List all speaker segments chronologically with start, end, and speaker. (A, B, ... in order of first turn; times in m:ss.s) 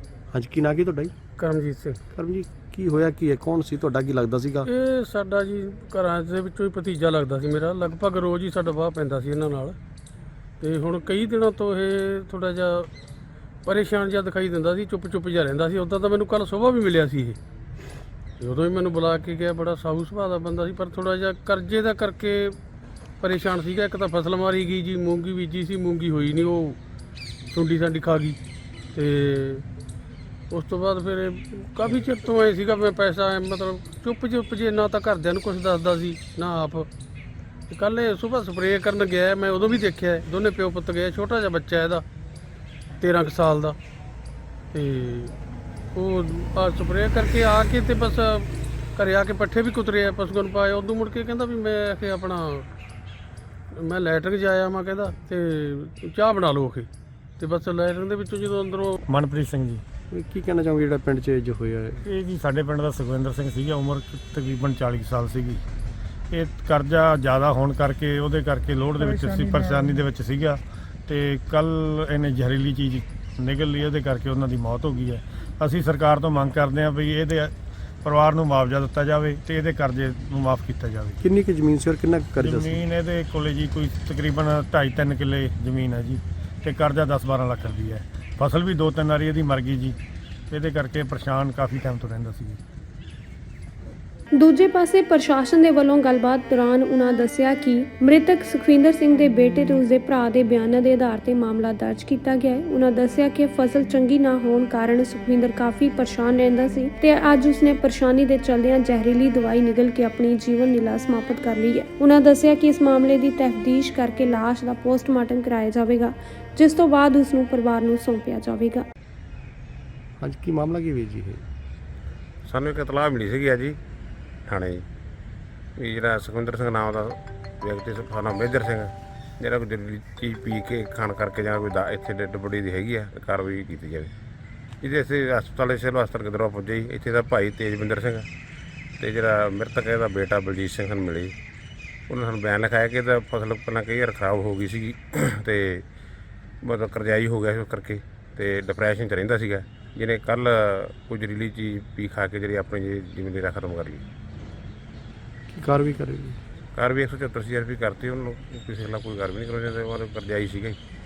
0:00.3-0:01.1 A
0:01.4-0:02.0 B
0:02.1-0:04.7 A
0:04.6-0:09.8 B
0:10.6-0:12.9 B
0:13.6-0:17.4 B
0:18.4-0:22.6 B
0:23.2-0:26.8 B
0:27.5-0:28.4 B
0:28.9-0:29.6 B
0:30.5-0:36.9 B
0:37.7-0:42.0 B
0:43.0-0:43.8 B
0:44.7-0:45.3 B
0:45.9-0:52.7 B
0:53.7-0:56.9 B
0:57.4-0:59.0 B
0:59.1-0:59.8 C
1:00.1-1:02.0 A
1:02.0-1:05.6 C
1:06.3-1:17.5 C
1:18.0-1:21.2 C
1:21.2-1:22.8 A
1:22.4-1:30.0 C
1:30.5-1:32.6 C
1:34.4-1:58.8 D
2:00.2-2:01.4 A
2:02.4-2:03.8 E
2:04.5-2:04.8 E
2:05.8-2:14.1 E
2:14.8-2:18.3 E
2:19.0-2:21.3 E
2:22.1-2:25.8 E
2:26.6-2:34.0 E
2:35.5-2:36.4 A
2:36.7-2:40.8 E